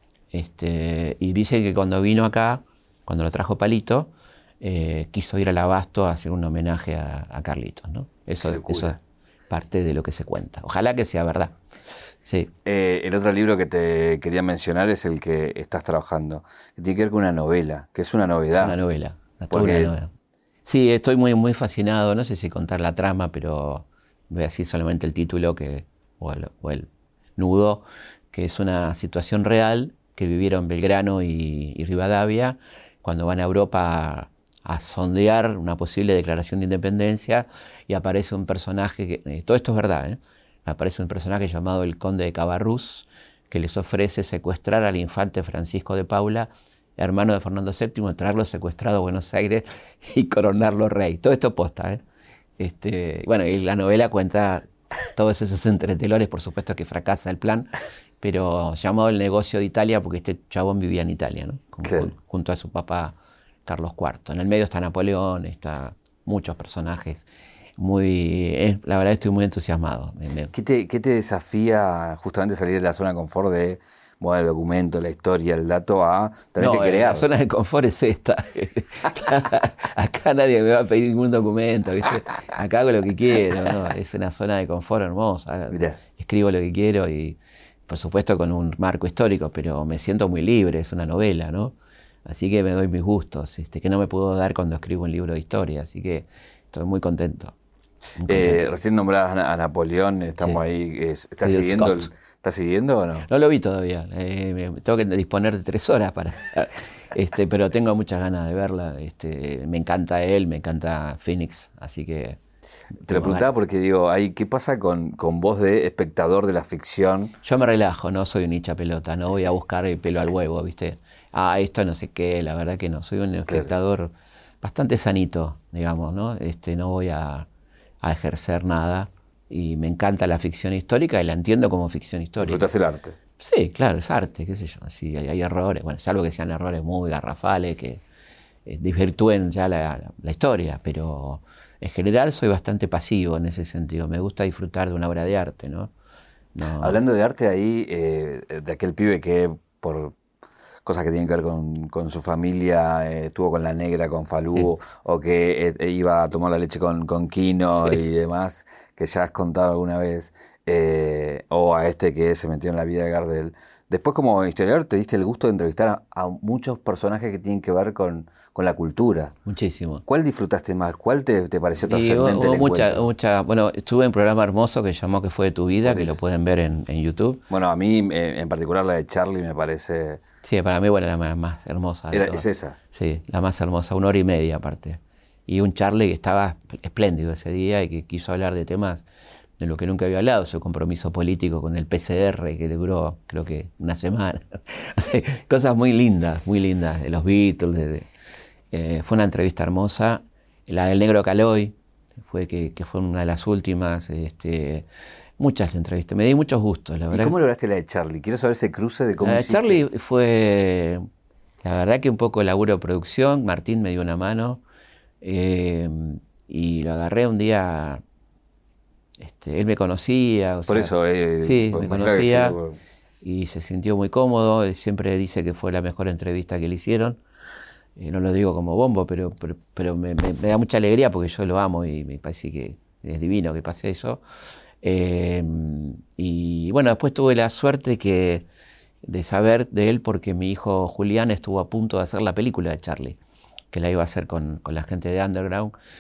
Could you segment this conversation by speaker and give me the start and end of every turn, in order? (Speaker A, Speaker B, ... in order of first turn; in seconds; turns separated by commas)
Speaker A: 0.3-11.6, Speaker B: 8.4-9.0, Speaker A: 12.2-12.5, Speaker B: 12.7-18.8, Speaker A: 18.5-20.1, Speaker B: 19.5-19.9, Speaker A: 20.6-52.0, Speaker A: 52.6-57.7, Speaker A: 58.2-67.2, Speaker B: 61.8-62.1, Speaker A: 67.8-70.5, Speaker B: 70.5-77.3, Speaker A: 76.6-97.5, Speaker B: 85.7-86.0, Speaker A: 98.2-98.6, Speaker B: 98.3-103.3, Speaker A: 101.4-102.1, Speaker A: 103.3-112.4, Speaker A: 113.0-113.5, Speaker B: 113.1-117.4, Speaker A: 117.4-127.5, Speaker A: 128.0-132.7, Speaker B: 132.4-133.2, Speaker A: 133.4-138.0, Speaker A: 138.7-145.9, Speaker A: 146.6-147.0, Speaker B: 146.8-150.2, Speaker B: 150.8-169.3, Speaker A: 169.5-170.0, Speaker B: 170.1-173.1, Speaker A: 171.8-177.4, Speaker B: 175.8-176.2, Speaker B: 177.5-180.2, Speaker A: 180.4-189.1, Speaker B: 182.1-182.8, Speaker A: 189.6-198.1, Speaker A: 198.7-204.9, Speaker A: 205.4-207.3, Speaker B: 207.1-209.8, Speaker A: 209.2-211.1, Speaker A: 211.6-214.6, Speaker A: 215.2-218.0, Speaker A: 219.2-222.6, Speaker B: 220.7-222.8, Speaker A: 223.2-227.2, Speaker A: 228.0-234.2, Speaker A: 234.8-238.5, Speaker A: 239.0-243.2, Speaker A: 243.7-245.7